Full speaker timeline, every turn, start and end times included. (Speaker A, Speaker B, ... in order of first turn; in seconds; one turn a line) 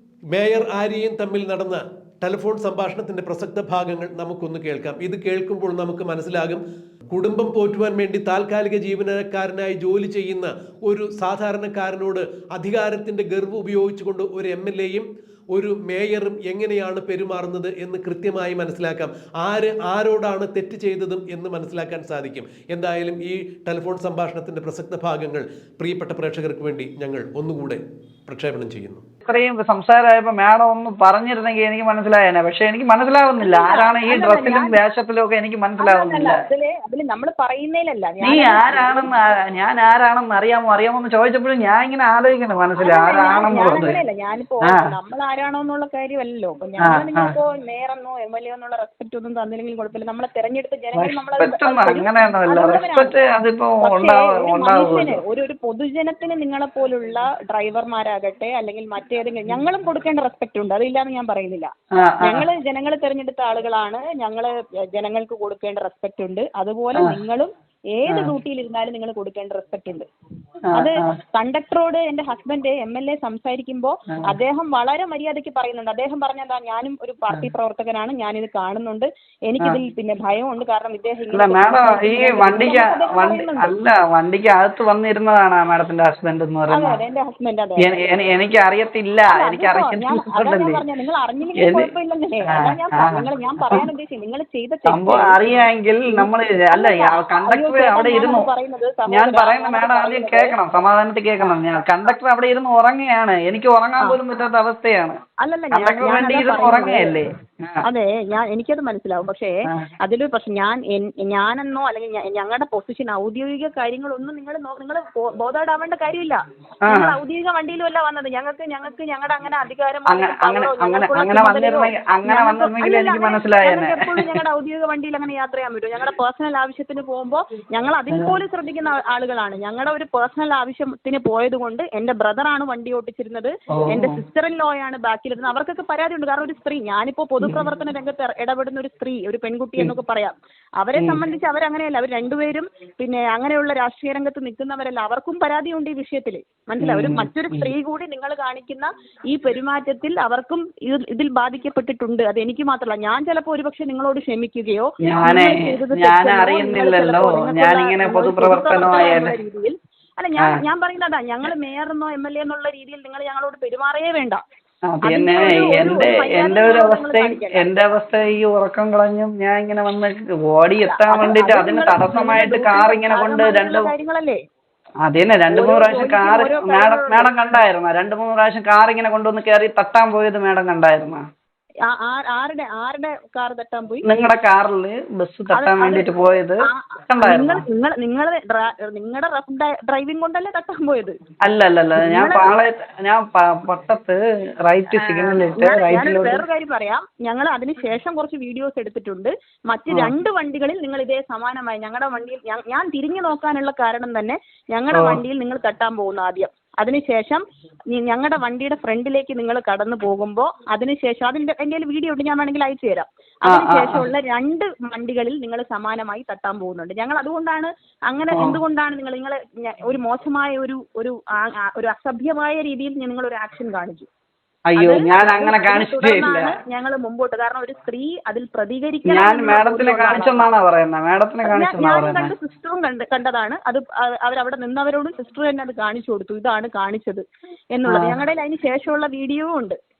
Speaker A: 0.3-29.0
Speaker B: 29.2-36.4
Speaker C: 33.4-34.7
Speaker C: 35.8-39.1
Speaker B: 38.2-44.0
Speaker C: 42.8-53.1
Speaker B: 46.8-47.3
Speaker B: 51.0-55.2
Speaker C: 53.8-61.7
Speaker B: 62.0-62.4
Speaker C: 62.2-70.0
Speaker B: 70.7-71.2
Speaker C: 70.8-83.7
Speaker B: 81.3-86.9
Speaker C: 86.7-87.9
Speaker B: 87.8-90.8
Speaker C: 89.3-95.5
Speaker B: 91.6-91.9
Speaker B: 92.5-93.8
Speaker B: 94.9-98.5
Speaker C: 96.1-100.5
Speaker B: 99.1-105.2
Speaker C: 105.4-107.2
Speaker B: 105.7-107.8
Speaker C: 107.8-164.4
Speaker B: 116.8-117.2
Speaker B: 120.1-124.3
Speaker B: 133.9-134.2
Speaker B: 146.8-147.7
Speaker B: 155.1-159.3
Speaker B: 164.9-173.9
Speaker C: 165.0-167.7
Speaker C: 170.8-174.4
Speaker B: 175.0-181.2
Speaker C: 175.5-177.3
Speaker C: 181.9-184.0
Speaker B: 184.1-186.6
Speaker C: 185.5-186.1
Speaker C: 186.7-191.2
Speaker B: 187.1-187.6
Speaker B: 191.4-196.4
Speaker C: 192.0-192.5
Speaker C: 195.0-207.4
Speaker B: 204.9-205.2
Speaker C: 207.9-224.1
Speaker B: 213.5-214.0
Speaker B: 218.3-218.6
Speaker B: 224.7-226.5
Speaker C: 224.8-230.5
Speaker B: 229.0-232.3
Speaker C: 231.4-237.2
Speaker C: 237.7-239.8
Speaker B: 237.9-238.1